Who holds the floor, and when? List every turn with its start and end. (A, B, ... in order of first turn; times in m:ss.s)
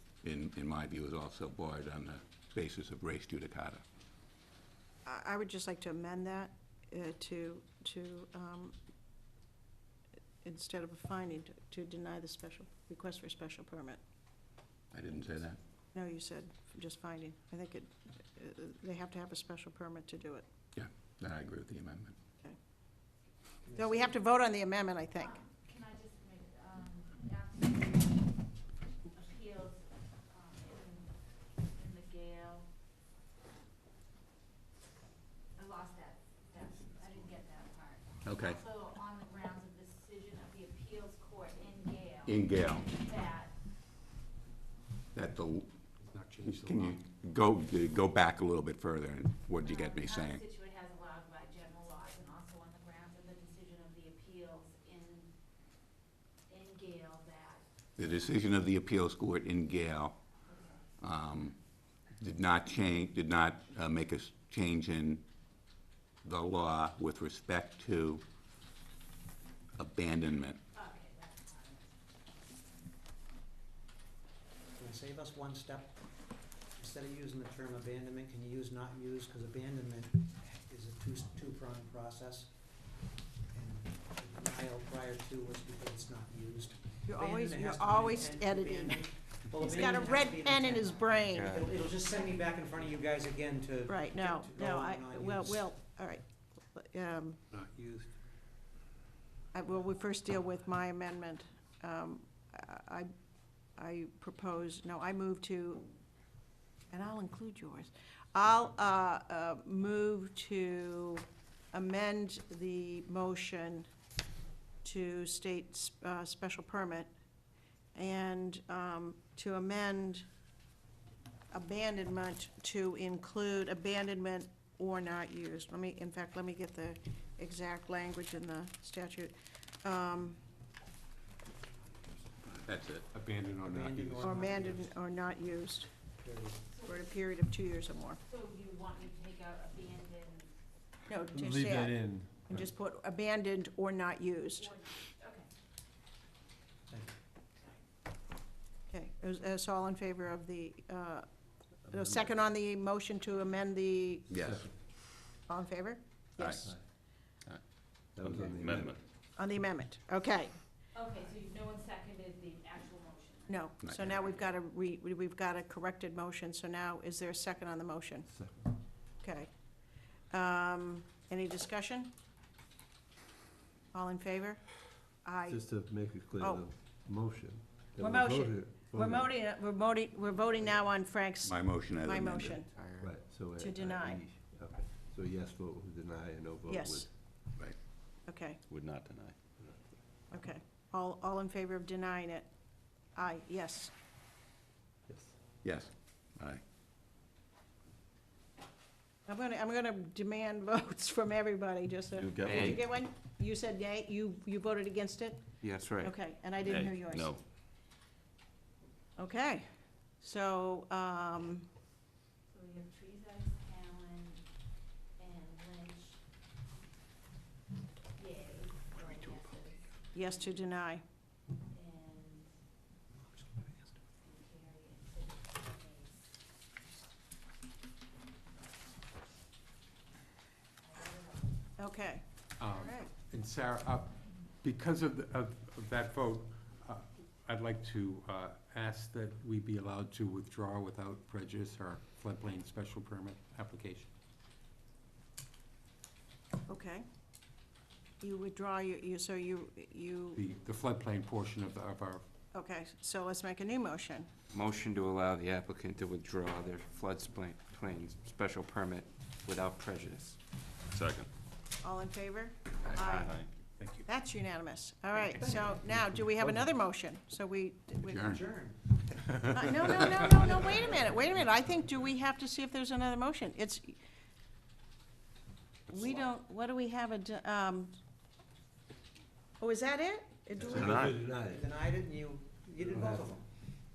0:00.2-0:03.8 A
0:05.0-0:08.8 B
0:10.4-0:14.0 B
0:14.9-0:15.6 A
0:15.9-0:20.4 B
0:20.7-0:22.1 A
0:23.6-0:24.0 C
0:23.7-0:25.4 B
0:25.2-0:28.3 D
0:29.1-0:32.7 D
0:35.6-0:43.5 D
0:38.2-0:38.6 A
0:42.2-0:42.9 A
0:45.1-0:45.7 A
0:46.0-0:47.0 E
0:46.4-0:50.4 A
0:49.6-0:55.3 D
0:56.5-0:57.6 D
0:58.0-1:00.2 A
1:00.5-1:00.9 D
1:01.0-1:01.6 A
1:02.2-1:05.2 A
1:06.2-1:08.2 A
1:09.8-1:10.6 A
1:10.7-1:12.6 D
1:14.8-1:16.0 C
1:16.7-1:22.7 C
1:23.5-1:35.7 C
1:27.0-1:31.6 B
1:31.3-1:31.7 F
1:33.9-1:37.4 B
1:37.5-1:38.1 E
1:39.5-1:43.1 B
1:43.8-1:45.8 B
1:46.9-1:53.9 B
1:54.8-1:57.1 B
1:57.9-2:00.2 B
2:01.5-2:10.4 B
2:12.6-2:13.0 A
2:13.1-2:14.4 E
2:13.5-2:14.9 C
2:14.2-2:15.9 B
2:16.1-2:16.6 C
2:16.7-2:17.1 D
2:16.8-2:18.2 B
2:18.3-2:20.5 D
2:21.1-2:24.7 B
2:21.3-2:22.6 E
2:24.6-2:25.5 D
2:26.9-2:27.2 C
2:28.9-2:31.3 B
2:31.9-2:34.3 B
2:34.3-2:34.6 A
2:34.4-2:34.7 G
2:35.4-2:36.7 B
2:36.4-2:36.6 A
2:38.1-2:39.0 G
2:39.4-2:40.5 B
2:40.9-2:44.3 D
2:43.5-2:48.3 B
2:43.8-2:44.1 A
2:48.3-2:48.7 G
2:49.2-2:49.5 B
2:50.3-2:52.1 B
2:53.9-2:55.6 B
2:55.5-2:59.3 G
2:56.4-2:56.6 B
2:58.0-3:02.8 B
3:01.4-3:02.7 A
3:03.0-3:07.0 G
3:03.5-3:04.2 B
3:06.7-3:07.1 B
3:08.2-3:08.6 B
3:08.7-3:09.3 H
3:10.3-3:12.5 B
3:13.1-3:13.9 B
3:15.1-3:15.3 G
3:15.6-3:16.6 A
3:19.2-3:27.4 B
3:22.2-3:22.8 H
3:25.6-3:26.2 F
3:26.6-3:27.4 H
3:29.2-3:31.6 B
3:32.5-3:34.4 D
3:35.2-3:36.2 D
3:38.2-3:40.7 D
3:40.1-3:41.0 B
3:41.7-3:42.5 D
3:44.2-3:46.3 D
3:50.8-3:51.5 D
3:51.8-3:53.1 B
3:52.6-4:04.1 E
4:06.7-4:07.0 B
4:08.2-4:10.4 B
4:10.3-4:12.2 E
4:12.5-4:14.3 B
4:14.5-4:20.4 F
4:20.9-4:21.3 H
4:21.8-4:23.4 B
4:23.6-4:24.1 E
4:24.1-4:28.4 B
4:25.3-4:25.8 C
4:26.1-4:26.6 E
4:28.0-4:28.4 A
4:28.1-4:28.8 C
4:29.5-4:34.0 B
4:35.9-4:37.9 B
4:39.6-4:40.9 B
4:40.7-4:41.6 G
4:40.7-4:43.4 C
4:40.9-4:41.2 H